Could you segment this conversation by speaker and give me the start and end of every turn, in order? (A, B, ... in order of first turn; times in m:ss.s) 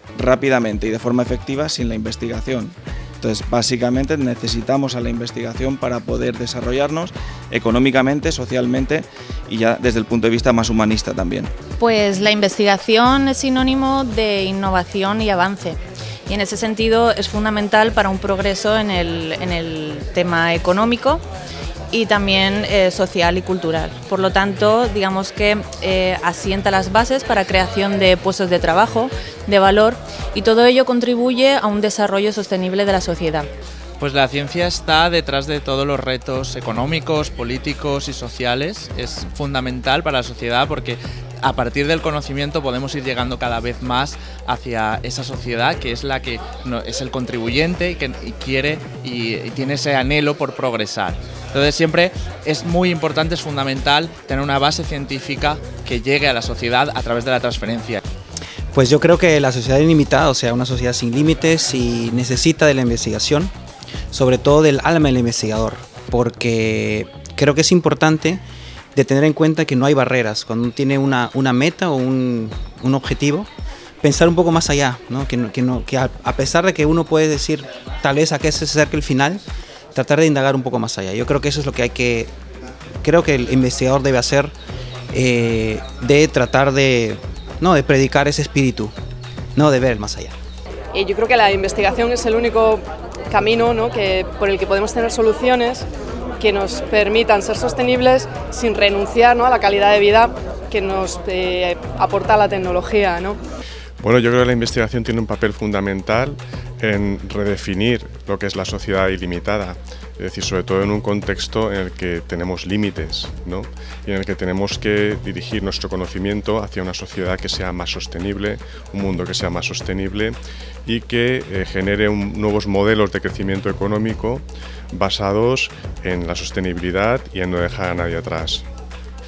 0:00.2-0:11.5 A
0:11.8-0:21.2 B
0:21.9-0:33.5 B
0:34.0-0:58.0 C
0:58.7-1:03.5 D
1:04.1-1:08.4 D
1:09.0-1:13.5 D
1:14.0-1:19.4 D
1:19.9-1:22.3 D
1:23.0-1:24.5 D
1:25.1-1:28.9 D
1:29.6-1:30.3 D
1:31.0-1:32.7 E
1:33.4-1:35.7 E
1:36.4-1:37.9 E
1:38.6-1:40.2 E
1:40.8-1:43.3 E
1:44.0-2:08.6 F